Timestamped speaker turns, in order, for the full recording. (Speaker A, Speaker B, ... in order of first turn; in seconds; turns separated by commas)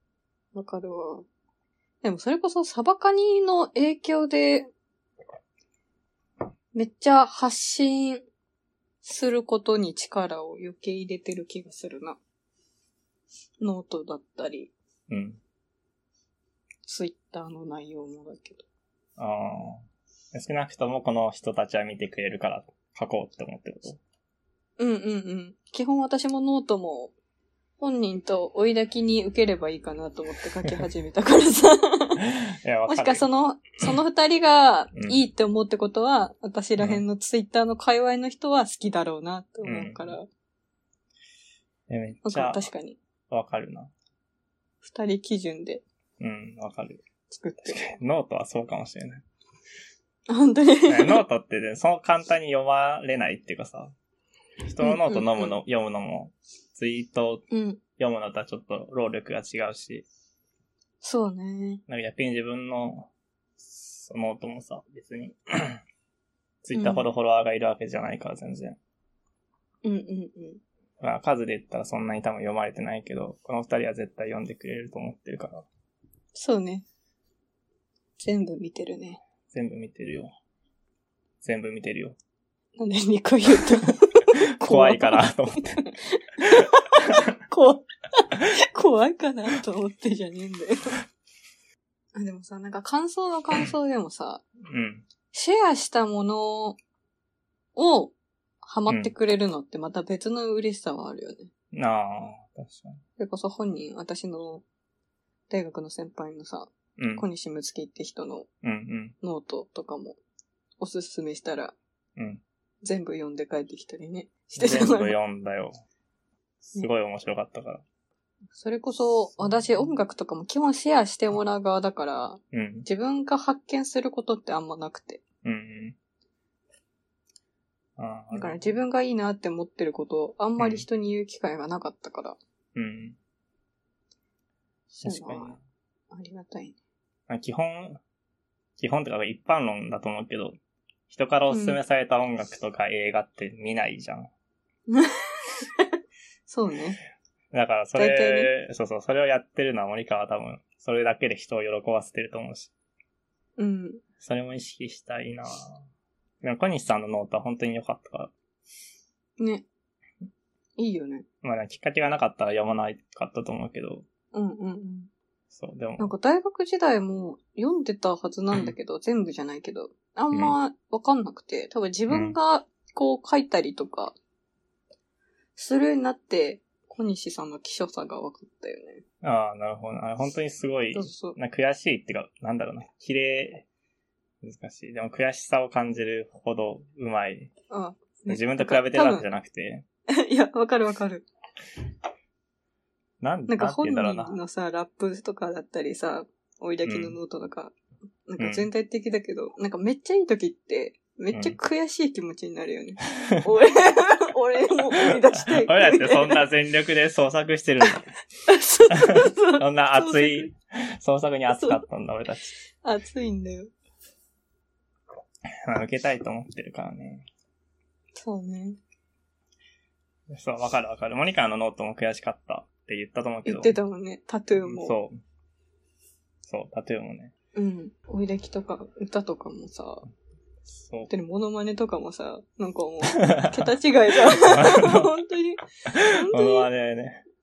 Speaker A: 0.5-1.3, Speaker A: 2.0-4.7, Speaker A: 6.7-8.2, Speaker A: 9.0-12.2, Speaker A: 13.6-14.7, Speaker B: 15.1-15.4, Speaker A: 16.9-18.6, Speaker B: 19.2-24.0, Speaker A: 24.8-27.1, Speaker A: 27.8-32.2, Speaker B: 32.2-33.3, Speaker A: 32.9-40.3, Speaker B: 39.6-40.2, Speaker B: 41.9-42.7, Speaker A: 42.2-43.0, Speaker B: 43.3-43.9, Speaker A: 44.8-45.8, Speaker B: 46.2-47.0, Speaker A: 47.3-47.9, Speaker B: 47.7-49.2, Speaker A: 50.3-51.2, Speaker B: 50.9-53.9, Speaker B: 54.6-57.5, Speaker A: 54.8-55.6, Speaker A: 57.5-57.8, Speaker B: 58.0-60.1, Speaker A: 61.0-61.8, Speaker B: 61.9-65.8, Speaker B: 66.6-68.8, Speaker A: 66.7-67.0, Speaker A: 69.8-70.6, Speaker B: 71.0-75.7, Speaker A: 76.3-76.9, Speaker A: 78.2-79.2, Speaker B: 79.5-80.3, Speaker B: 81.4-82.2, Speaker A: 82.8-91.0, Speaker B: 84.5-85.9, Speaker A: 92.2-94.4, Speaker B: 94.6-95.1, Speaker A: 95.3-96.8, Speaker A: 97.8-101.5, Speaker B: 101.7-103.0, Speaker A: 103.2-104.6, Speaker A: 105.5-108.5, Speaker B: 107.0-107.3, Speaker B: 108.6-109.2, Speaker A: 109.2-110.2, Speaker A: 110.8-111.8, Speaker B: 112.2-112.4, Speaker A: 112.8-115.2, Speaker B: 114.6-115.7, Speaker B: 116.6-117.8, Speaker A: 118.5-125.2, Speaker B: 122.5-122.9, Speaker B: 125.4-126.0, Speaker B: 128.0-128.7, Speaker A: 128.3-132.4, Speaker B: 130.6-130.9, Speaker B: 132.8-133.2, Speaker A: 134.9-135.6, Speaker B: 135.0-135.6, Speaker A: 136.1-136.8, Speaker B: 137.3-138.0, Speaker B: 138.8-140.6, Speaker B: 141.1-144.3, Speaker A: 141.5-141.8, Speaker A: 144.9-145.8, Speaker A: 146.5-147.0, Speaker B: 147.5-152.7, Speaker A: 147.9-148.5, Speaker A: 153.6-154.0, Speaker B: 154.2-155.8, Speaker B: 156.4-158.3, Speaker A: 159.4-159.7, Speaker A: 160.8-161.3, Speaker B: 161.4-164.1, Speaker A: 164.3-165.1, Speaker B: 165.5-166.1, Speaker A: 166.0-174.2, Speaker B: 172.1-172.4, Speaker A: 175.6-179.0, Speaker B: 179.2-183.7, Speaker A: 180.9-181.4, Speaker B: 184.4-187.5, Speaker A: 187.7-189.3, Speaker B: 188.3-189.8, Speaker A: 190.1-191.3, Speaker B: 193.2-194.4, Speaker A: 193.5-197.8, Speaker B: 196.8-197.2, Speaker A: 198.3-206.5, Speaker B: 198.4-198.7, Speaker B: 201.3-201.6, Speaker B: 205.0-208.1, Speaker A: 208.4-210.5, Speaker B: 208.9-212.6, Speaker A: 211.6-211.8, Speaker A: 212.8-213.7, Speaker B: 215.6-217.3, Speaker A: 218.2-218.8, Speaker B: 220.3-223.8, Speaker A: 223.4-224.9, Speaker B: 224.6-225.2, Speaker B: 226.4-227.3, Speaker A: 227.6-230.1, Speaker B: 230.7-231.1, Speaker A: 231.1-236.7, Speaker B: 234.3-235.2, Speaker B: 235.9-237.2